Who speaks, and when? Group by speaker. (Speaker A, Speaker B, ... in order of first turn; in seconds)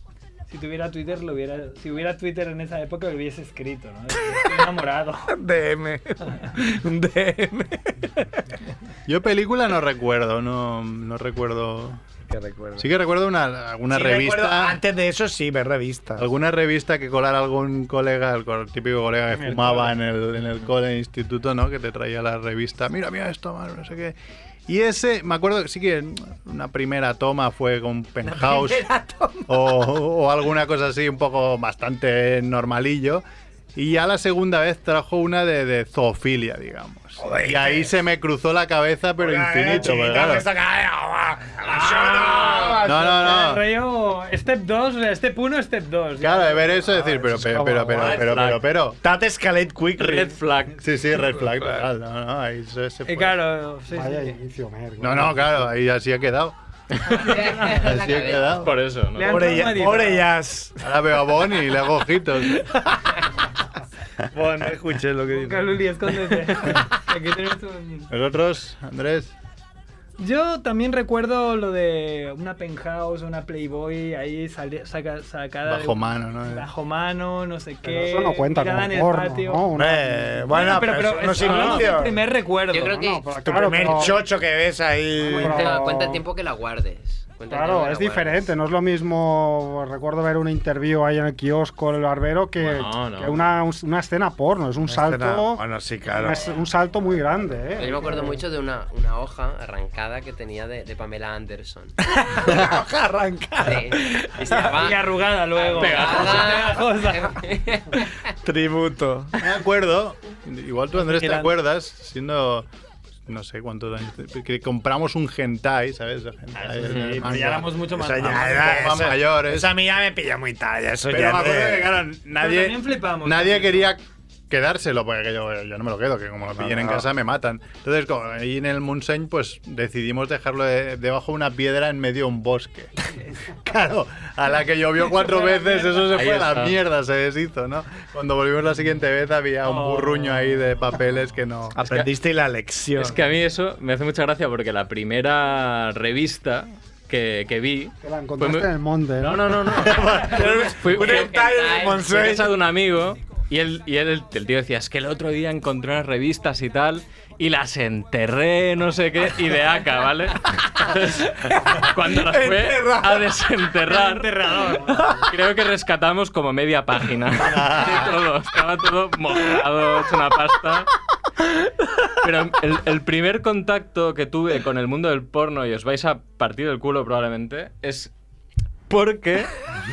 Speaker A: 0.5-5.3, 19.4-19.9, 43.1-47.0, 53.0-54.4, 57.1-57.8, 59.1-60.3, 65.3-68.1, 70.2-79.6, 80.5-83.0, 104.1-107.5, 116.9-118.3, 122.4-123.9, 135.3-136.1, 139.6-140.5, 163.9-165.0
Speaker B: 5.3-8.3, 12.3-12.8, 13.9-16.2, 28.2-29.6, 37.2-37.9, 39.2-43.3, 49.0-50.4, 59.2-60.9, 64.3-66.8, 79.8-82.2, 83.4-85.8, 94.9-96.4, 102.0-104.5, 108.4-109.3, 111.1-111.5, 116.8-121.9, 126.6-127.1, 141.7-143.3, 150.2-152.6, 161.7-163.3, 164.9-165.2
Speaker C: 9.1-12.0, 12.8-14.8, 16.2-28.9, 29.5-33.2, 33.7-40.5, 42.8-43.6, 46.2-49.0, 50.8-53.4, 55.0-56.5, 57.6-58.7, 60.8-62.6, 68.1-69.3, 75.6-76.7, 109.4-112.7, 113.3-119.7, 121.1-132.9, 133.6-142.0, 149.7-150.7, 167.4-168.2
Speaker D: 48.0-48.6, 50.0-50.8, 58.6-59.7, 92.6-93.4, 105.7-106.6, 136.1-136.8, 142.9-164.5, 165.1-170.9, 172.2-178.1, 178.9-179.5
Speaker E: 53.9-55.7, 77.8-80.8, 81.4-82.0, 82.9-84.3, 85.2-86.2, 87.5-98.4, 148.0-150.1
Speaker F: 57.1-58.7, 82.7-84.1, 85.4-88.5, 97.8-101.9, 103.6-108.1, 151.1-152.0